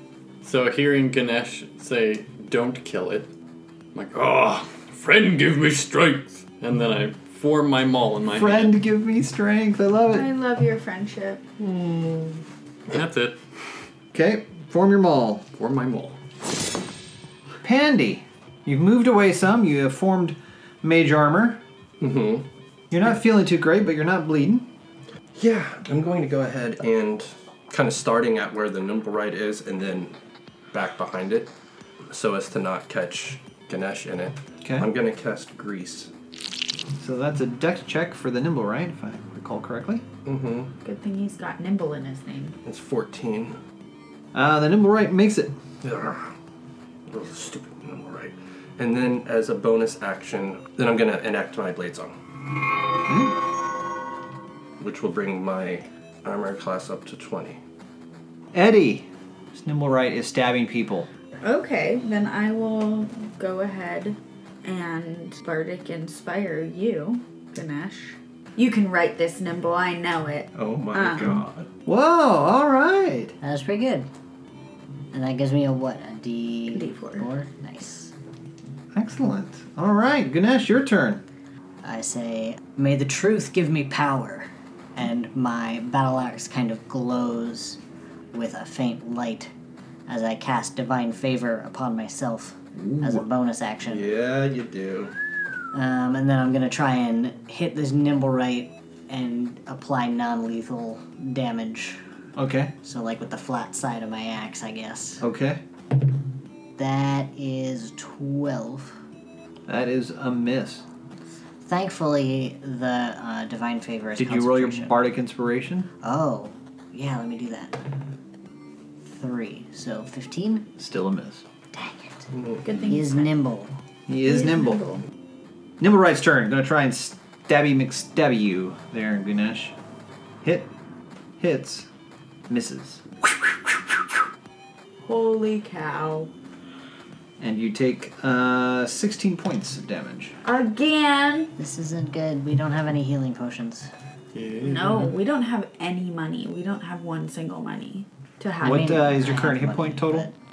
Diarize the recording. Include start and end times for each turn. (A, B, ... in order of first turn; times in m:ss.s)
0:00.4-0:03.3 A
0:03.9-0:08.7 A
0:08.3-0:10.3 B
0:10.1-0:11.4 C
0:11.6-0:12.4 D
0:12.9-0:13.4 A
0:14.1-0:15.4 B
0:15.6-0:16.2 A
0:17.6-0:21.6 B
0:22.0-0:22.4 D
0:22.9-0:24.7 B
0:25.3-0:30.2 D
0:30.7-0:31.5 D
0:32.1-0:36.1 D
0:34.6-0:34.9 B
0:37.0-0:40.0 B
0:40.2-0:40.7 D
0:40.8-0:42.6 C
0:42.6-0:43.6 D
0:44.3-0:45.5 B
0:45.8-0:46.3 D
0:47.1-0:52.1 D
0:53.0-0:53.4 B
0:54.8-0:57.6 D
0:58.5-1:01.1 B
1:01.4-1:11.4 C
1:10.5-1:11.7 D
1:11.8-1:13.3 B
1:13.4-1:14.1 E
1:15.1-1:18.1 E
1:16.7-1:17.2 C
1:18.9-1:21.2 B
1:21.8-1:27.8 E
1:28.3-1:29.5 E
1:30.1-1:34.1 E
1:32.7-1:33.2 B
1:33.8-1:35.1 D
1:35.7-1:42.0 E
1:42.4-1:42.7 B
1:42.8-1:45.2 E
1:45.2-1:45.6 B
1:46.8-1:49.0 E
1:49.7-1:50.8 B
1:51.6-1:55.0 E
1:54.2-1:55.9 B
1:56.0-1:57.8 E
1:59.0-2:00.7 E
2:00.8-2:01.4 B
2:01.7-2:03.7 E
2:02.3-2:02.6 D
2:02.6-2:03.3 C
2:04.1-2:04.8 B
2:04.2-2:05.0 C
2:05.8-2:09.7 B
2:10.4-2:10.7 B
2:11.4-2:11.9 B
2:12.5-2:13.8 B
2:15.0-2:16.3 C
2:17.4-2:20.3 B
2:20.4-2:21.5 C
2:21.6-2:23.9 E
2:24.3-2:25.2 A
2:24.6-2:29.1 C
2:28.6-2:30.3 B
2:28.6-2:30.3 E